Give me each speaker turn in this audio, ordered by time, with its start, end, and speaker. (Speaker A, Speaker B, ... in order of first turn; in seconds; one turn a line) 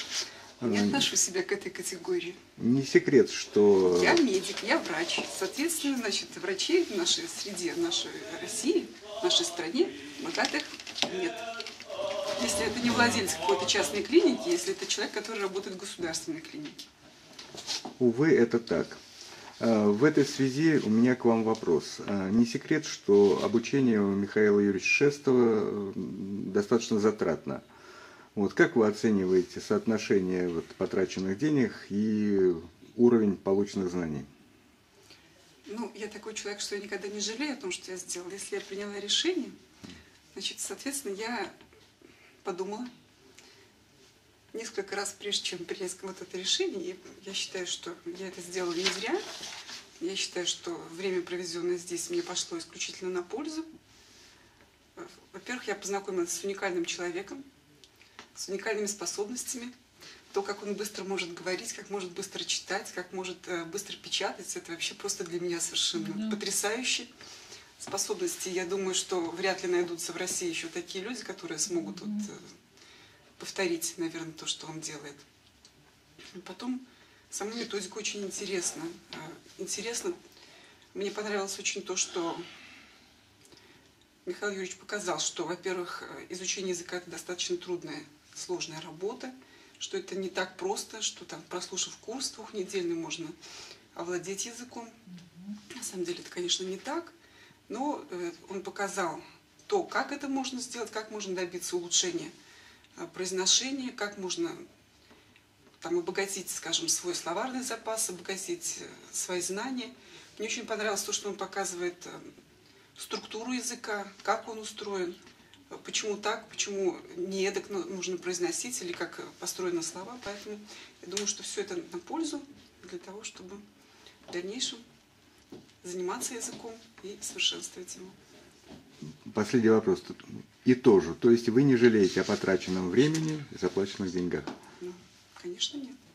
Speaker A: 0.6-1.1
Speaker B: 0.6-2.4
Speaker A: 2.6-4.2
Speaker B: 3.8-11.6
Speaker B: 12.3-16.9
Speaker A: 18.0-19.0
Speaker A: 19.6-27.6
Speaker A: 28.3-34.3
Speaker B: 35.6-39.5
Speaker B: 40.3-41.5
Speaker B: 42.4-42.9
Speaker B: 44.5-49.2
Speaker B: 50.0-53.7
Speaker B: 55.0-57.4
Speaker B: 58.3-59.7
Speaker B: 60.3-67.1
Speaker B: 67.8-72.5
Speaker B: 73.4-75.2
Speaker B: 76.3-80.2
Speaker B: 80.9-82.5
Speaker B: 84.2-93.3
Speaker B: 93.9-95.0
Speaker B: 95.7-97.1
Speaker B: 97.7-102.3
Speaker B: 103.0-104.6
Speaker B: 105.8-112.3
Speaker B: 113.0-123.6
Speaker B: 124.3-124.8
Speaker B: 125.8-128.2
Speaker A: 129.2-134.5
Speaker B: 134.8-136.0